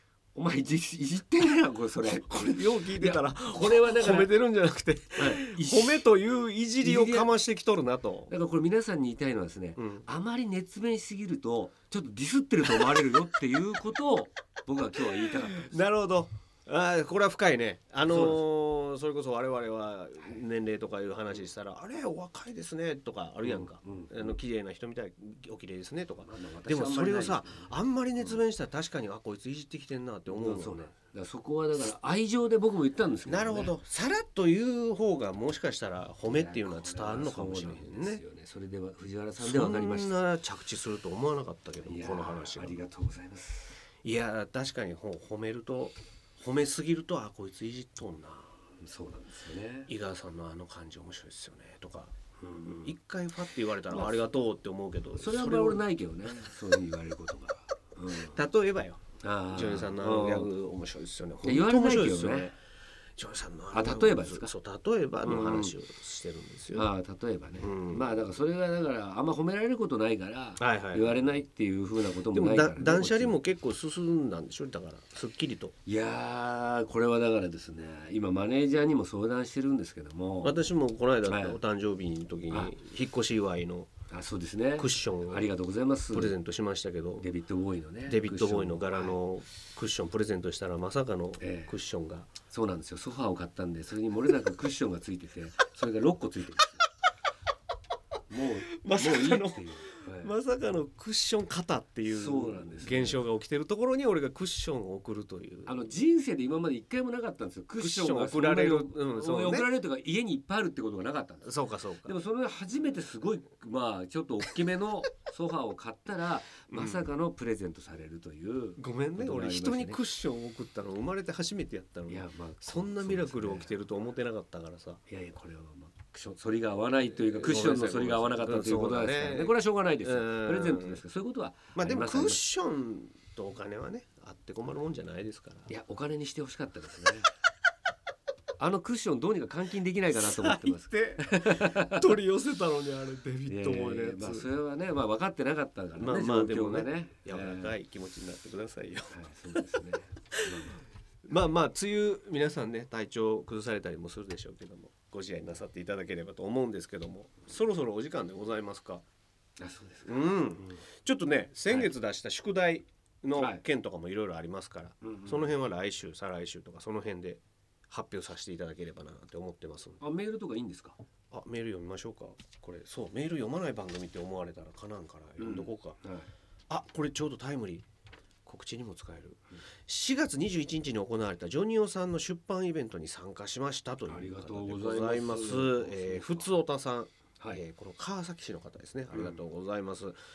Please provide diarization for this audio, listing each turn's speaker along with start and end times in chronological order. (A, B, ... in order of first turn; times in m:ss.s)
0:00.4-0:04.4 A
0:02.0-0:08.3 B
0:05.2-0:06.1 A
0:06.8-0:07.3 A
0:08.3-0:15.8 A
0:09.8-0:10.1 B
0:15.2-0:30.9 B
0:18.1-0:18.4 A
0:23.4-0:24.4 A
0:26.3-0:28.4 A
0:30.3-0:33.7 A
0:33.3-0:38.2 B
0:36.3-0:40.2 A
0:39.4-0:42.8 B
0:41.8-0:43.8 A
0:44.0-0:48.6 B
0:48.8-0:49.9 A
0:49.9-0:55.8 B
0:52.4-0:52.9 A
0:53.9-0:54.3 A
0:55.2-0:58.4 A
0:58.1-1:02.6 B
0:59.2-1:00.5 A
1:01.4-1:02.5 A
1:03.2-1:06.9 B
1:03.7-1:04.5 A
1:05.2-1:05.7 A
1:06.7-1:13.4 A
1:07.6-1:08.2 B
1:10.6-1:11.3 B
1:12.3-1:15.7 B
1:15.9-1:20.6 A
1:20.4-1:23.9 B
1:21.3-1:21.6 A
1:24.1-1:26.4 A
1:24.8-1:25.5 B
1:26.1-1:27.3 B
1:27.2-1:29.2 A
1:28.1-1:32.3 B
1:31.4-1:31.7 A
1:32.5-1:36.8 A
1:38.3-1:40.3 A
1:38.8-1:45.8 B
1:42.1-1:43.2 A
1:45.7-2:00.0 A
1:47.8-1:49.7 B
1:51.4-1:52.2 B
1:56.7-1:57.1 B
1:58.8-2:05.0 B
2:02.1-2:03.7 A
2:05.1-2:12.4 A
2:07.1-2:11.0 B
2:11.8-2:15.7 B
2:15.7-2:17.3 A
2:18.6-2:22.1 A
2:20.1-2:24.5 B
2:23.5-2:27.8 A
2:26.0-2:29.6 B
2:29.1-2:30.8 A
2:30.3-2:30.7 B
2:31.3-2:39.0 B
2:39.6-2:40.7 A
2:40.1-2:50.0 B
2:43.4-2:43.6 A
2:45.0-2:45.5 A
2:50.0-2:51.0 A
2:51.3-2:56.0 B
2:55.4-2:56.3 A
2:56.7-2:57.9 B
2:58.5-3:10.2 B
3:04.1-3:06.5 A